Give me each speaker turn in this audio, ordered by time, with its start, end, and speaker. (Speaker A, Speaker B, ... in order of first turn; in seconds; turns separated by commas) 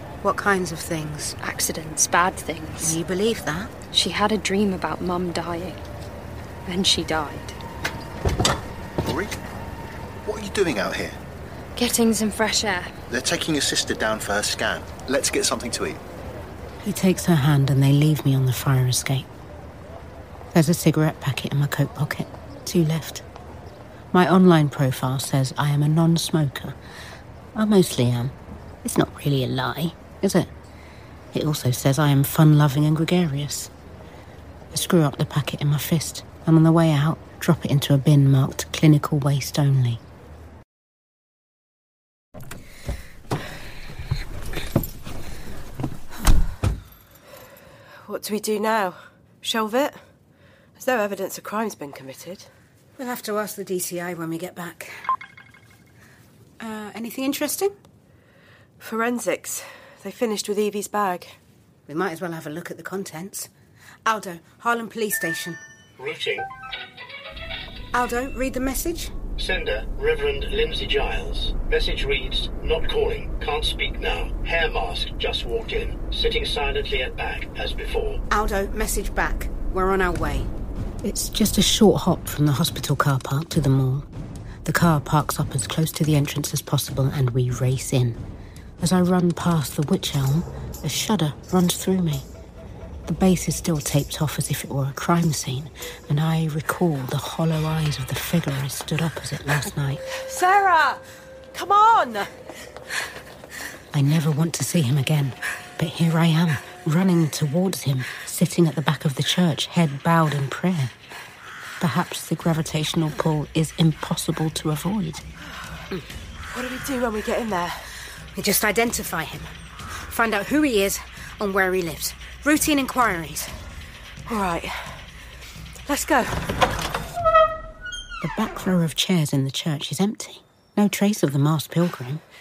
Speaker A: 0.2-1.4, Speaker B: 1.4-3.0, Speaker A: 2.8-3.7, Speaker B: 3.9-5.8, Speaker B: 6.7-7.6, Speaker C: 9.0-9.4, Speaker C: 10.2-11.2, Speaker B: 11.8-12.9, Speaker C: 13.1-16.0, Speaker A: 16.8-19.3, Speaker A: 20.5-23.2, Speaker A: 24.1-26.8, Speaker A: 27.6-30.5, Speaker A: 31.3-33.7, Speaker A: 34.7-40.0, Speaker D: 48.0-50.0, Speaker D: 50.8-52.5, Speaker A: 53.0-55.0, Speaker A: 56.6-57.8, Speaker D: 58.8-61.3, Speaker A: 61.9-63.5, Speaker A: 64.1-65.6, Speaker E: 66.0-66.5, Speaker A: 67.9-69.1, Speaker E: 69.4-78.2, Speaker A: 78.3-80.5, Speaker A: 81.0-84.1, Speaker A: 84.7-88.2, Speaker A: 88.8-92.3, Speaker A: 93.1-100.0, Speaker D: 100.2-101.0, Speaker D: 101.5-102.3, Speaker A: 103.9-110.9, Speaker A: 111.8-115.2, Speaker D: 116.5-117.8, Speaker A: 118.3-119.5, Speaker A: 120.1-123.5, Speaker D: 124.3-124.8, Speaker D: 125.9-126.6, Speaker A: 128.2-132.2